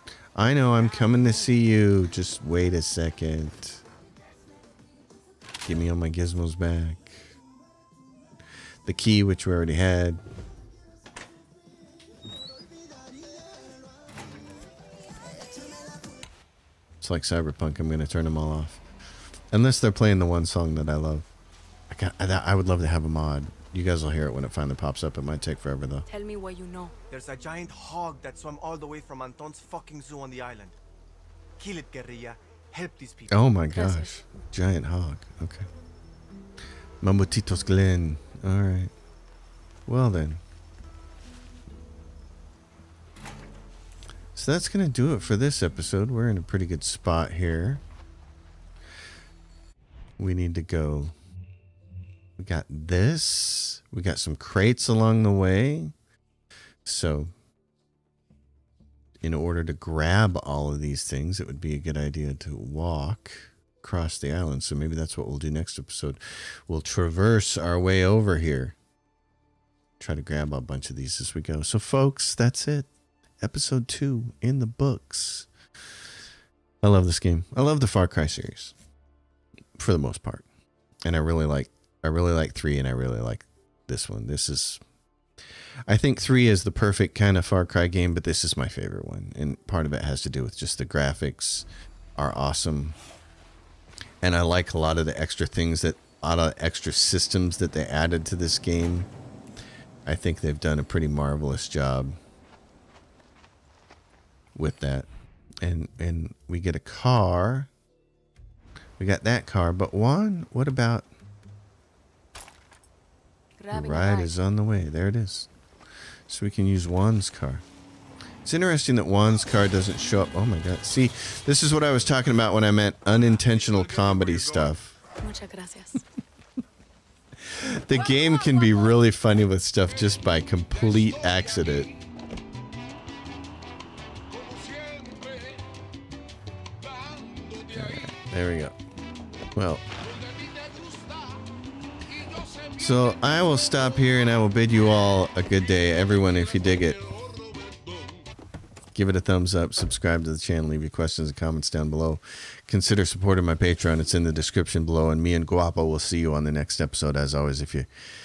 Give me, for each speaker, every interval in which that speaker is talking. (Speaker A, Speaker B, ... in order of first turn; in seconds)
Speaker A: 0.4-3.8, 5.6-7.3, 8.8-10.2, 17.0-18.8, 19.5-21.3, 21.9-26.1, 33.3-35.7, 37.0-38.9, 39.9-40.4, 44.4-47.8, 50.2-51.1, 52.4-55.9, 56.9-57.3, 59.2-68.8, 70.0-72.9, 73.4-75.5, 76.8-78.8, 79.8-80.5, 81.0-84.8, 85.9-93.0, 94.2-99.1, 100.1-102.2, 104.6-105.1, 105.6-107.7, 109.0-111.1, 113.7-115.5, 116.3-117.7, 118.4-125.0, 127.5-131.9, 137.7-138.8, 139.6-139.9, 142.8-147.1, 148.9-157.9
Speaker B: 26.1-26.9, 33.7-34.1, 113.6-114.3, 125.2-126.0, 127.9-129.0
Speaker C: 27.1-30.8, 31.6-33.6